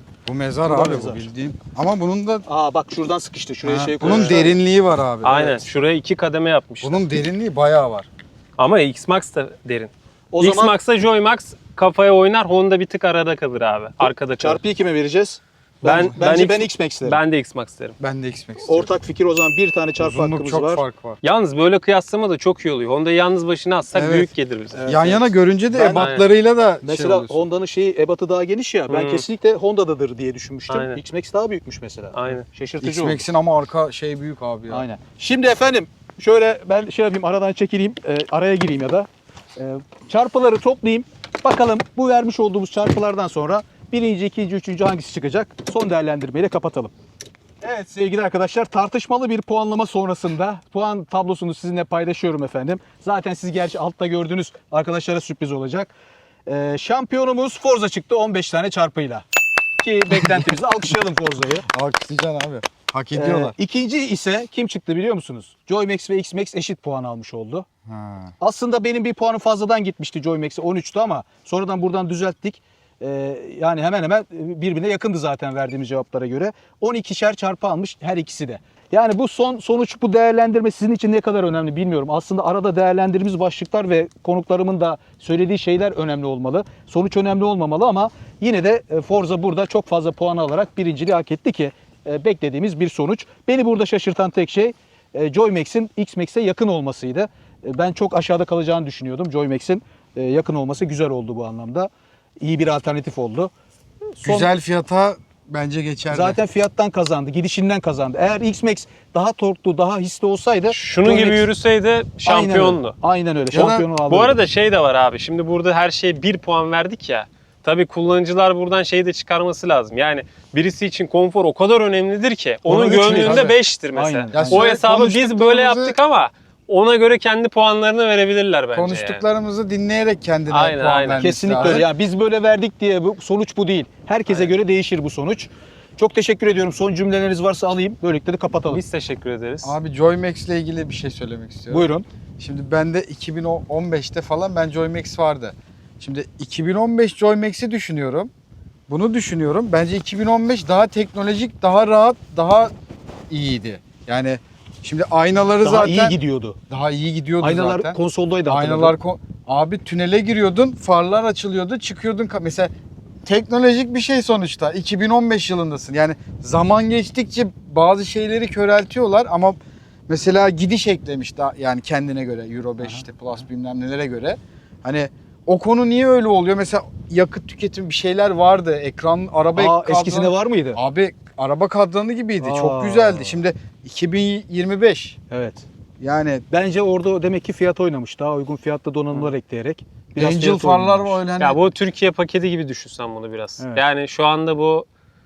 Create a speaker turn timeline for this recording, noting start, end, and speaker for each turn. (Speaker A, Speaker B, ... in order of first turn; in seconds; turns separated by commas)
Speaker A: 0.2-2.4, Speaker B: 0.7-1.2, Speaker B: 2.5-4.6, Speaker A: 3.6-5.6, Speaker C: 4.0-4.3, Speaker C: 5.2-7.0, Speaker A: 6.8-8.1, Speaker C: 8.6-14.6, Speaker B: 10.3-10.7, Speaker B: 14.0-17.2, Speaker C: 15.8-18.0, Speaker A: 15.9-16.2, Speaker A: 18.0-18.9, Speaker B: 18.6-20.8, Speaker A: 20.0-21.2, Speaker C: 21.2-24.8, Speaker A: 23.9-24.3, Speaker B: 24.7-26.1, Speaker A: 24.9-27.4, Speaker C: 25.9-26.2, Speaker B: 26.8-33.2, Speaker C: 28.9-29.2, Speaker C: 30.7-31.0, Speaker C: 32.1-32.4, Speaker A: 32.8-34.8, Speaker B: 34.7-46.9, Speaker B: 47.6-55.9, Speaker B: 56.5-59.2, Speaker B: 59.8-61.7, Speaker A: 61.7-63.5, Speaker B: 63.1-67.7, Speaker A: 67.9-68.3, Speaker B: 68.4-103.5, Speaker B: 104.2-104.5, Speaker A: 104.2-106.4, Speaker B: 106.1-111.4, Speaker C: 110.7-113.0, Speaker B: 112.2-114.4, Speaker A: 113.5-113.8, Speaker C: 113.7-129.2, Speaker B: 122.7-124.7, Speaker A: 122.7-123.5, Speaker A: 124.3-126.0, Speaker A: 128.7-131.9, Speaker C: 130.5-131.2, Speaker B: 131.2-138.8, Speaker C: 138.7-139.8, Speaker A: 139.6-141.9, Speaker B: 141.7-142.0, Speaker A: 142.4-148.3, Speaker A: 148.9-152.7, Speaker A: 153.3-156.2, Speaker B: 155.6-156.6, Speaker A: 156.7-162.7, Speaker B: 157.4-158.9, Speaker A: 163.2-185.2, Speaker B: 179.5-180.8, Speaker B: 182.4-183.4, Speaker B: 185.3-185.7, Speaker A: 186.0-186.4, Speaker B: 186.5-191.2, Speaker A: 190.2-191.6, Speaker C: 191.4-194.9